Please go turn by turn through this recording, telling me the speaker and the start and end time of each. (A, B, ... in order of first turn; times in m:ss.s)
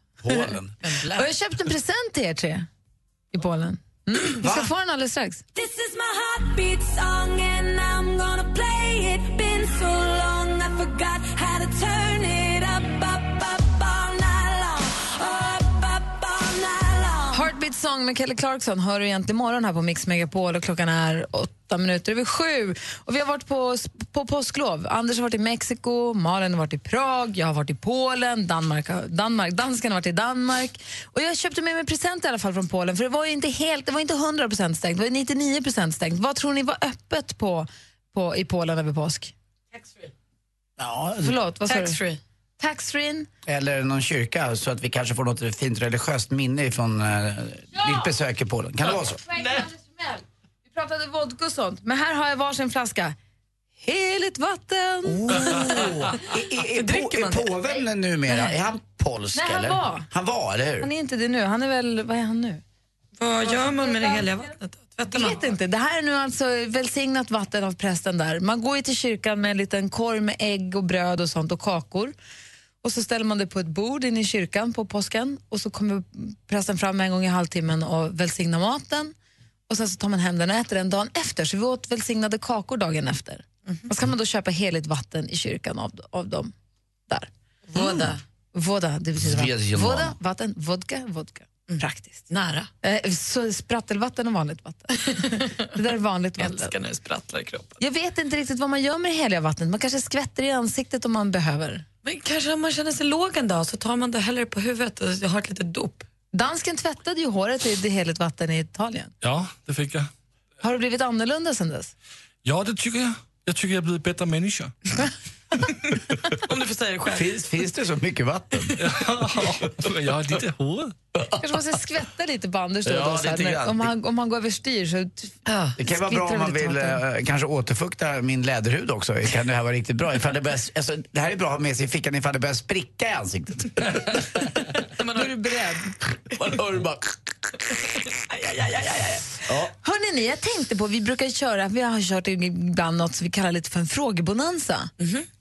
0:00.2-0:01.3 A
0:01.2-0:02.7 B
0:03.3-0:05.4 B
0:04.4-0:04.7 A
0:05.6-0:06.1 C
0:06.9-0:11.9 C
0:17.3-0:39.3 B
0:39.7-0:40.1 D
0:40.8-0:41.4 A
0:41.2-0:42.0 B
0:41.7-0:42.2 D
0:42.6-0:43.3 B
0:43.4-0:49.2 A
0:47.8-0:48.1 B
0:49.1-0:53.2 B
0:53.8-0:55.7 B
0:55.0-1:00.9 A
0:56.2-0:57.7 D
0:59.3-1:00.1 B
1:00.8-1:02.6 B
1:03.2-1:05.4 D
1:03.4-1:04.3 B
1:05.1-1:12.1 B
1:12.8-1:19.1 B
1:19.7-1:26.5 B
1:27.1-1:32.3 B
1:27.7-1:28.2 D
1:29.2-1:30.1 A
1:31.7-1:32.7 D
1:32.8-1:36.7 B
1:36.4-1:37.8 D
1:37.8-1:41.8 B
1:42.0-1:46.1 D
1:46.3-1:49.1 B
1:49.2-1:50.1 E
1:50.6-1:51.9 B
1:52.4-1:54.7 E
1:56.4-1:57.4 D
1:57.1-1:58.8 A
1:58.8-2:00.9 E
2:01.4-2:07.0 B
2:02.8-2:03.9 A
2:05.5-2:05.7 D
2:05.8-2:14.4 A
2:15.0-2:15.4 D
2:15.1-2:15.9 B
2:16.3-2:17.1 A
2:18.3-2:19.2 D
2:19.8-2:24.9 B
2:25.0-2:25.2 D